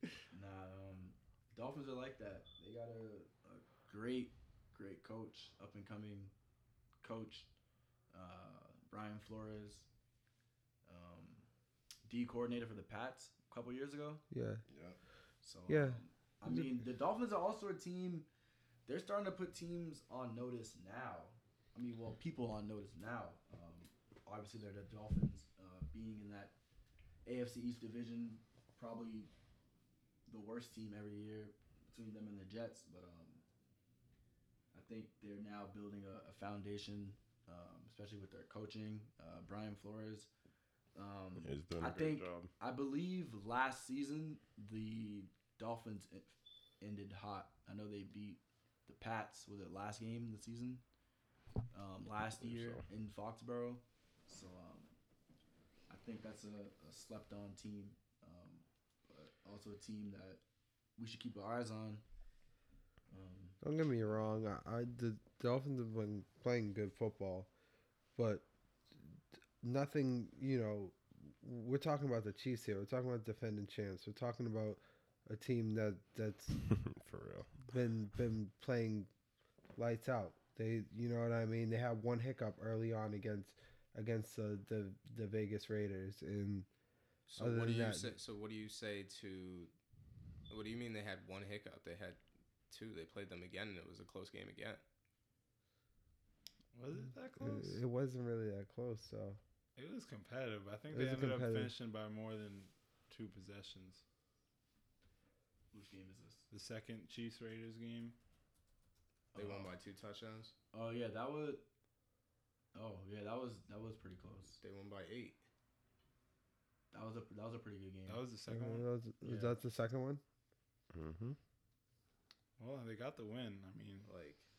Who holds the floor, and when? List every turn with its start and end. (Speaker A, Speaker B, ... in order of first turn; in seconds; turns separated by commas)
Speaker A: 0.3-6.3, Speaker A: 7.0-7.5, Speaker A: 8.1-9.9, Speaker A: 10.9-11.5, Speaker A: 12.1-14.2, Speaker B: 14.3-14.6, Speaker C: 14.7-15.0, Speaker A: 15.4-18.3, Speaker B: 15.7-16.7, Speaker A: 18.9-26.5, Speaker A: 27.2-29.3, Speaker A: 30.3-33.4, Speaker A: 34.7-40.3, Speaker A: 41.0-50.8, Speaker D: 41.4-42.5, Speaker A: 51.7-54.9, Speaker D: 52.4-52.8, Speaker A: 55.9-60.4, Speaker A: 61.0-62.0, Speaker A: 63.1-63.6, Speaker B: 63.6-67.5, Speaker B: 68.2-68.5, Speaker B: 69.6-76.6, Speaker D: 76.7-77.6, Speaker B: 77.7-79.1, Speaker B: 79.8-86.7, Speaker C: 87.3-89.7, Speaker B: 87.4-88.2, Speaker C: 90.5-94.8, Speaker E: 96.7-97.8, Speaker B: 97.4-99.4, Speaker E: 99.8-104.0, Speaker B: 100.9-101.7, Speaker A: 105.7-106.5, Speaker E: 106.5-108.2, Speaker A: 109.3-109.7, Speaker C: 109.4-110.5, Speaker A: 110.7-111.6, Speaker A: 112.8-114.6, Speaker C: 114.6-115.4, Speaker A: 116.9-118.2, Speaker E: 118.1-118.9, Speaker B: 118.5-120.2, Speaker A: 119.2-119.6, Speaker D: 120.9-121.4, Speaker E: 122.6-124.1, Speaker C: 124.0-124.5